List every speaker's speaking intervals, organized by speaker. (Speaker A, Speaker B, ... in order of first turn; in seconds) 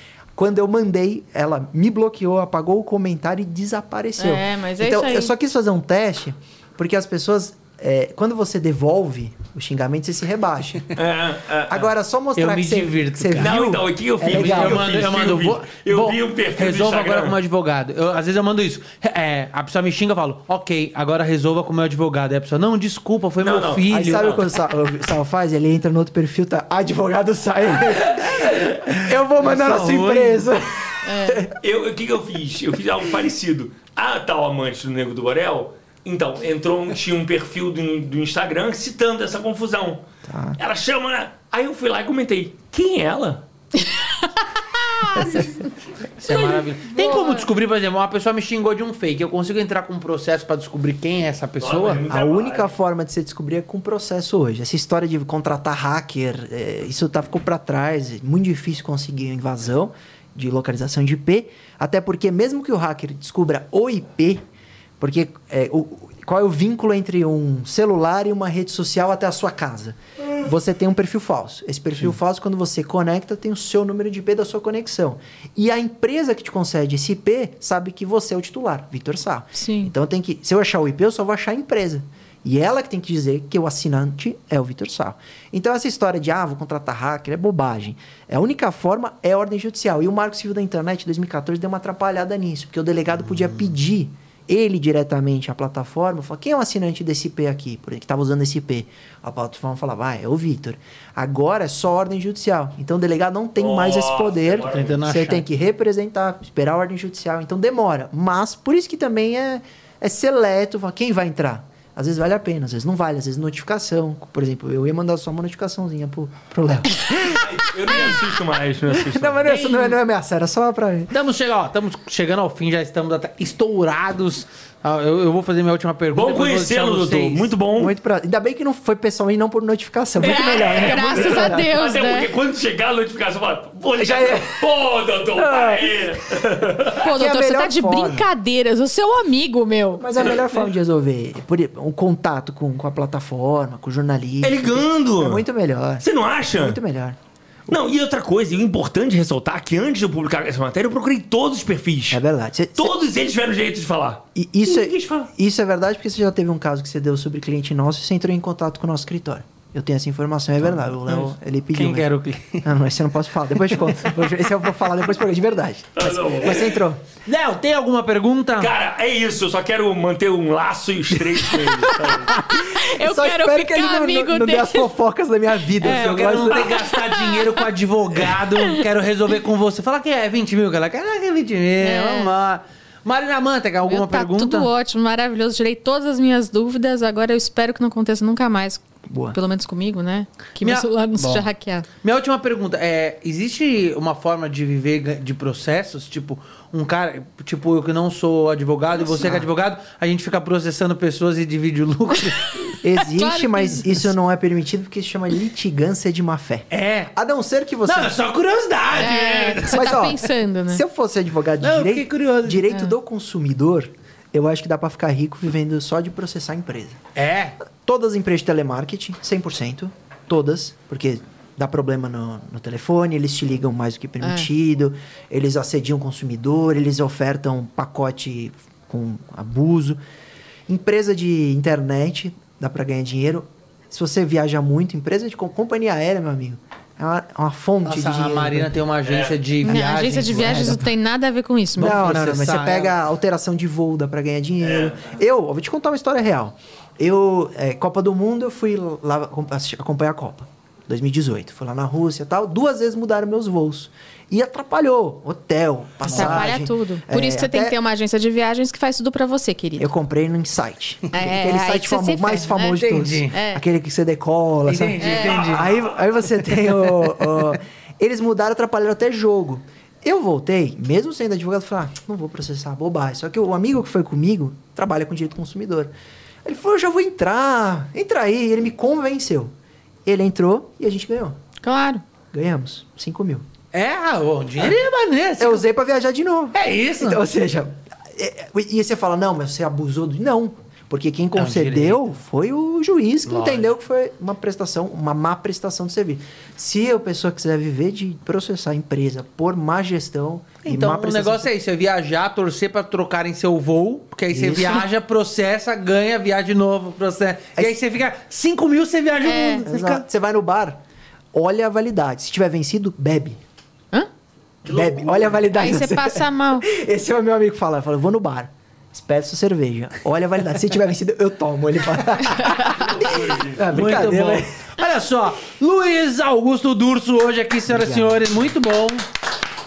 Speaker A: 0.3-11.0, 11.7-14.9, 23.9-31.5, 40.3-40.6, 52.1-64.4, 65.0-118.0, 118.9-121.1, 127.8-131.7, 134.0-134.6, 135.3-136.0, 137.0-138.3, 140.0-147.2, 152.1-153.0, 154.3-162.1, 162.6-167.0, 172.7-176.8, 189.1-189.4, 199.0-199.5, 202.8-208.2, 209.0-217.0, 217.7-230.0, 230.7-238.7, 240.3-240.9, 241.8-257.8, 259.8-275.9, 276.4-279.5, 280.0-281.4, 282.3-283.4, 285.4-301.5, 304.3-304.9, 309.4-310.8, 311.3-313.4, 314.6-324.5, 327.7-328.4
Speaker B: 4.2-5.3, 31.0-31.5, 43.9-45.5, 46.3-47.4, 79.5-79.9, 119.5-119.8, 130.2-132.3, 136.9-140.0, 172.3-174.9, 175.8-177.7, 178.5-178.8, 181.8-182.3, 183.9-191.9, 203.0-204.1, 208.9-210.8, 224.2-224.5, 239.6-242.0, 256.1-259.9, 261.1-263.6, 265.0-265.4, 281.6-282.0, 309.2-309.6, 315.5-316.6, 322.2-322.7
Speaker C: 10.9-11.9, 13.4-17.4, 23.4-24.4, 31.5-40.0, 40.6-43.4, 45.1-45.5, 51.6-52.7, 103.6-105.0, 117.3-119.5, 126.1-127.9, 130.2-137.0, 140.2-140.6, 144.4-145.4, 146.0-146.8, 147.7-152.2, 152.8-155.3, 165.9-166.8, 168.6-172.4, 239.0-239.4, 244.6-245.1, 265.1-266.0, 314.6-315.5, 322.6-324.0
Speaker D: 12.3-13.6, 14.2-24.3, 28.8-30.6, 46.2-52.0, 104.6-105.4, 119.5-119.9, 121.1-127.5, 161.0-162.7, 163.8-164.1, 167.2-168.7, 175.8-184.7, 190.6-191.5, 192.0-202.7, 206.7-207.1, 207.8-210.1, 211.6-212.7, 217.2-217.6, 237.8-240.8, 241.8-242.9, 256.1-256.5, 262.7-263.3, 264.6-265.7, 283.7-285.6, 286.5-287.2, 291.4-292.0, 293.2-293.7, 300.6-310.0, 323.6-329.1